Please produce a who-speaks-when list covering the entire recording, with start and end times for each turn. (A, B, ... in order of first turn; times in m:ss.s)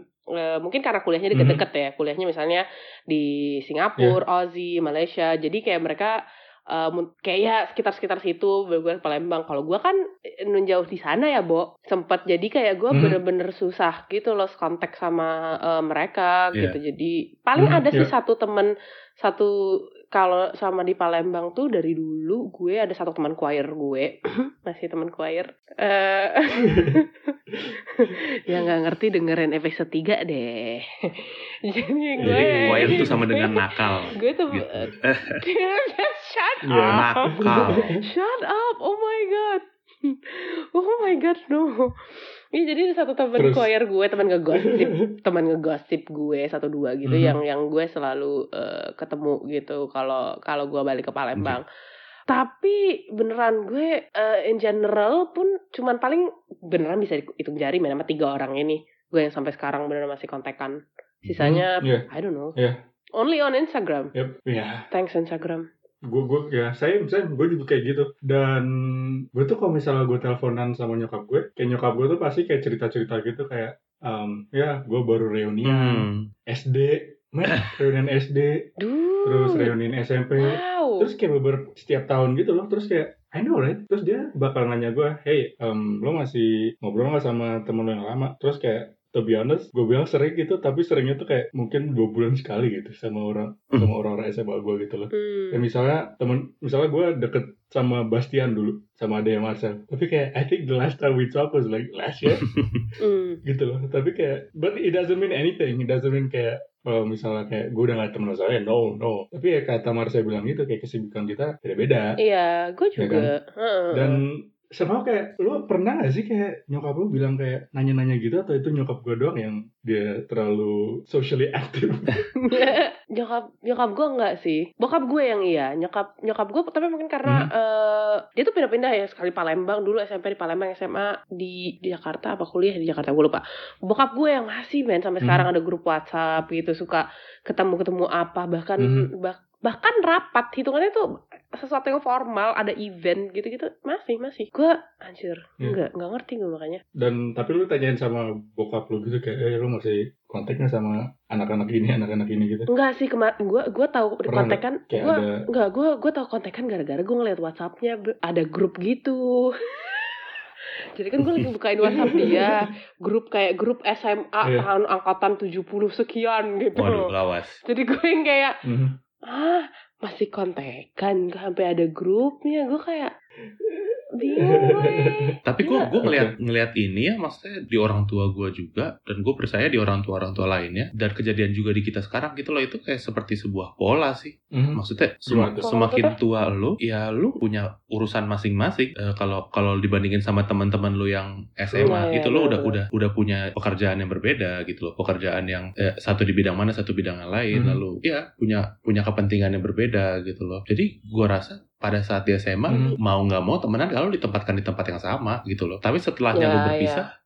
0:00.4-0:06.1 A
0:01.3-0:01.6 B
0:06.7-0:10.0 A
0:10.5-0:19.5 A
0:12.9-0:13.2 B
0:17.6-0:18.1 B
0:20.1-0:27.3 A
0:26.6-0:27.0 B
0:27.9-0:33.6 A
0:32.2-0:33.1 B
0:32.2-0:35.4 C
0:34.1-0:42.0 A
0:36.6-0:38.0 B
0:36.9-0:37.8 C
0:42.5-0:51.6 A
0:43.4-0:43.7 B
0:44.6-0:45.1 B
0:47.0-0:47.4 B
0:52.3-1:00.7 A
1:01.3-1:02.6 A
1:01.4-1:02.0 B
1:03.2-1:04.1 A
1:04.1-1:04.8 B
1:04.9-1:05.6 A
1:06.0-1:18.6 B
1:15.6-1:16.2 C
1:18.8-1:19.7 A
1:19.2-1:42.5 B
1:20.4-1:21.1 A
1:35.1-1:35.6 A
1:42.5-1:42.8 C
1:43.0-1:43.4 A
1:43.4-1:52.2 B
1:52.2-1:54.2 A
1:53.0-1:53.3 B
1:53.9-2:02.3 B
2:02.4-2:26.8 A
2:07.2-2:07.5 B
2:15.2-2:15.5 B
2:18.8-2:19.1 B
2:27.0-2:32.7 B
2:32.7-2:40.2 A
2:34.3-2:35.4 B
2:41.0-2:47.1 A
2:41.8-2:42.7 B
2:46.8-2:47.6 C
2:47.6-2:48.5 A
2:48.6-2:48.9 B
2:49.3-2:53.1 A
2:53.6-2:55.3 B
2:54.2-2:55.9 A
2:55.5-3:27.1 C
2:56.0-2:56.3 B
3:04.5-3:05.7 B
3:05.6-3:06.1 A
3:11.7-3:12.0 B
3:11.8-3:12.7 A
3:17.5-3:17.8 B
3:22.7-3:23.0 B
3:26.3-3:27.0 A